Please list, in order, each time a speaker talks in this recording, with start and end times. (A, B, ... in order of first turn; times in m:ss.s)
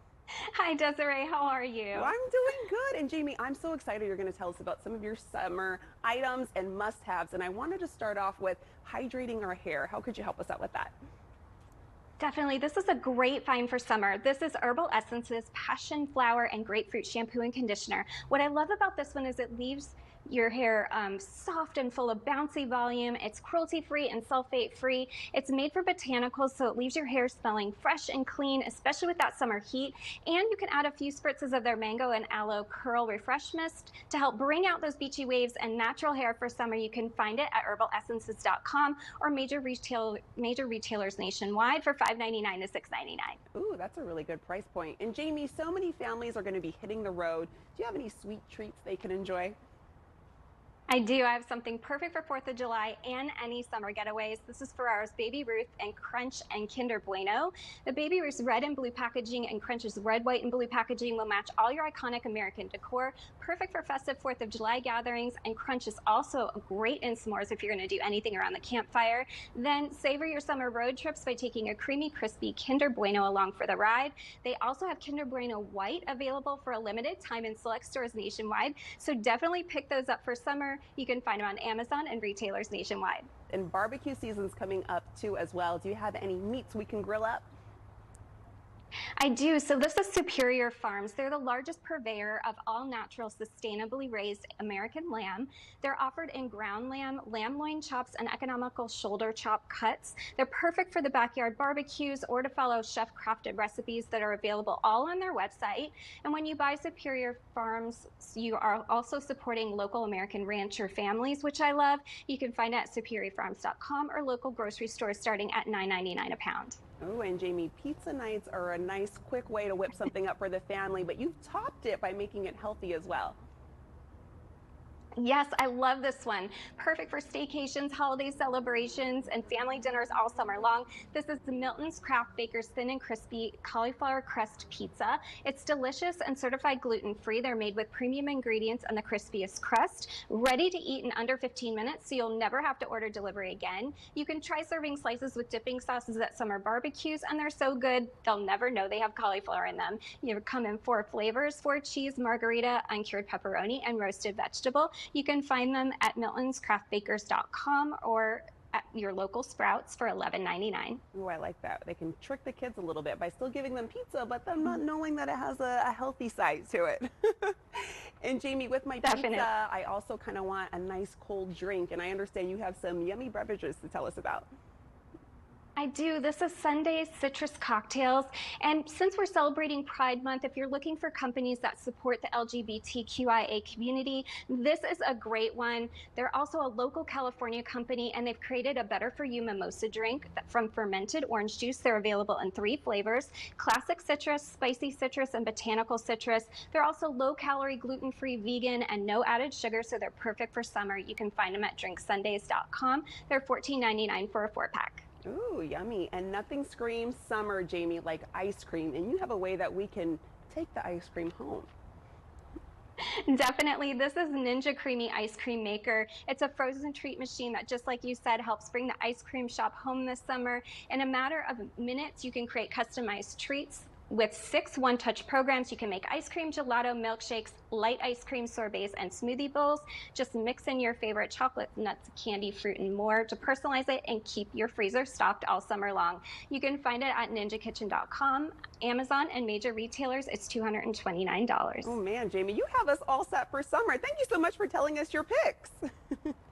0:00.5-0:02.1 A
0:01.9-0:10.9 B
0:12.2-0:43.4 A
0:43.5-0:49.6 B
0:50.9-1:23.3 A
1:23.5-1:27.5 B
1:29.2-1:56.8 A
1:57.0-2:03.4 B
2:05.2-2:41.0 A
2:41.1-2:54.5 B
2:49.0-2:49.5 A
2:55.8-3:25.0 A
3:25.2-3:31.7 B
3:33.0-4:02.0 A
4:01.8-4:05.8 B